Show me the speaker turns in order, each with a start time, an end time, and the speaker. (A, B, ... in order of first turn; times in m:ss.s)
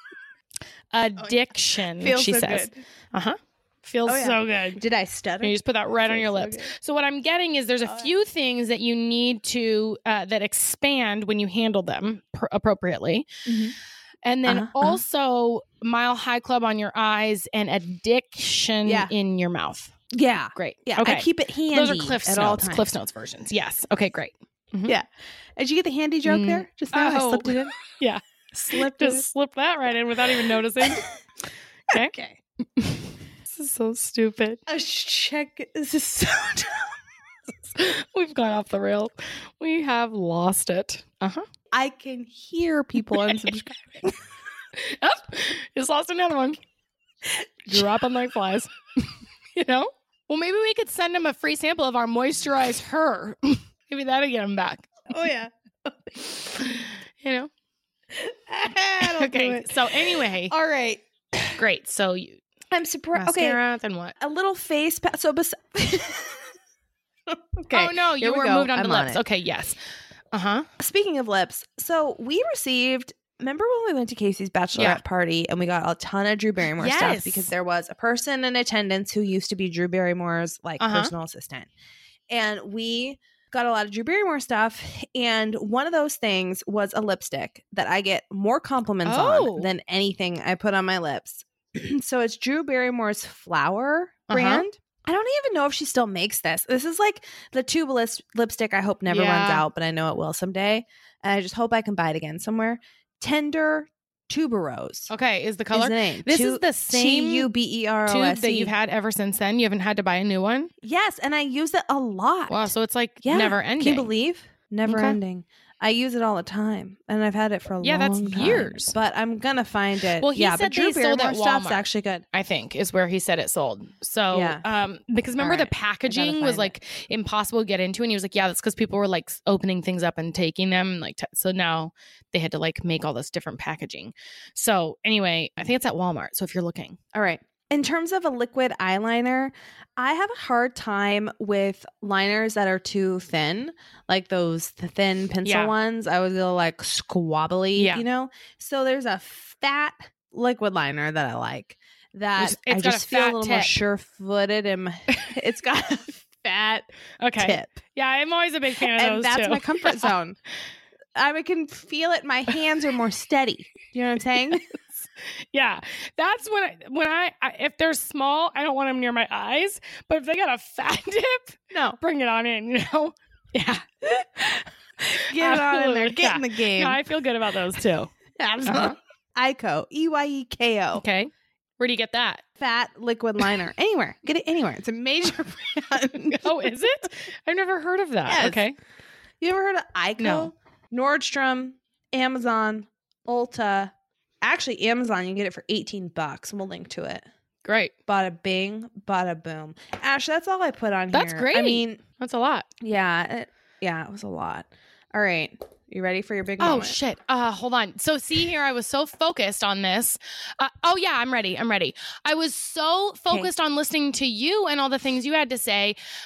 0:00.9-0:04.8 A
0:01.9-0:02.8 B
0:04.0-0:06.7 B
0:05.4-0:13.3 A
0:13.4-0:13.7 B
0:14.2-0:19.9 A
0:14.4-0:15.0 B
0:18.8-0:19.1 B
0:20.1-0:22.9 B
0:20.5-0:24.9 A
0:24.9-0:27.8 B
0:26.2-0:31.1 A
0:28.5-0:29.2 B
0:30.3-0:31.1 B
0:31.9-0:32.1 A
0:31.9-0:32.4 B
0:32.8-0:34.6 A
0:34.7-0:37.0 B
0:37.7-0:41.4 A
0:41.7-0:44.2 B
0:43.1-0:43.5 A
0:44.7-0:46.6 A
0:47.2-0:47.9 B
0:47.7-0:54.9 A
0:55.1-0:56.3 B
0:56.5-0:57.5 A
0:58.1-1:01.6 B
0:59.0-1:00.5 A
1:01.5-1:02.4 A
1:02.7-1:03.6 B
1:03.1-1:04.2 A
1:04.2-1:06.5 B
1:07.3-1:09.2 B
1:07.7-1:09.8 A
1:10.3-1:10.7 A
1:10.8-1:21.7 B
1:16.8-1:17.5 A
1:20.8-1:21.1 A
1:22.3-1:45.1 B
1:29.0-1:29.7 A
1:34.3-1:34.6 A
1:39.1-1:39.6 A
1:45.1-1:47.5 A
1:45.7-1:48.7 B
1:48.1-1:50.7 A
1:50.8-1:52.7 B
1:52.5-1:54.1 A
1:53.2-2:02.2 B
1:54.8-1:55.2 A
1:57.8-1:58.9 A
2:00.2-2:17.0 A
2:04.3-2:04.6 B
2:05.4-2:06.7 B
2:17.1-2:36.8 B
2:25.4-2:25.7 A
2:27.8-2:28.0 A
2:32.4-2:33.7 A
2:35.1-2:35.3 A
2:37.2-2:40.1 A
2:37.4-2:37.8 B
2:38.8-2:40.4 B
2:41.1-2:44.8 B
2:45.2-2:54.3 A
2:51.7-2:52.0 B
2:54.2-2:57.0 B
2:55.1-2:58.1 A
2:58.4-3:01.0 B
2:58.6-2:59.0 A
3:00.9-3:02.4 A
3:02.6-3:06.6 B
3:06.2-3:08.8 A
3:08.2-3:08.6 B
3:09.4-3:13.9 B
3:10.2-3:10.5 A
3:14.4-3:17.2 B
3:17.6-3:17.9 A
3:18.1-3:22.0 B
3:21.1-3:22.7 A
3:22.8-3:27.0 B
3:26.6-3:36.0 A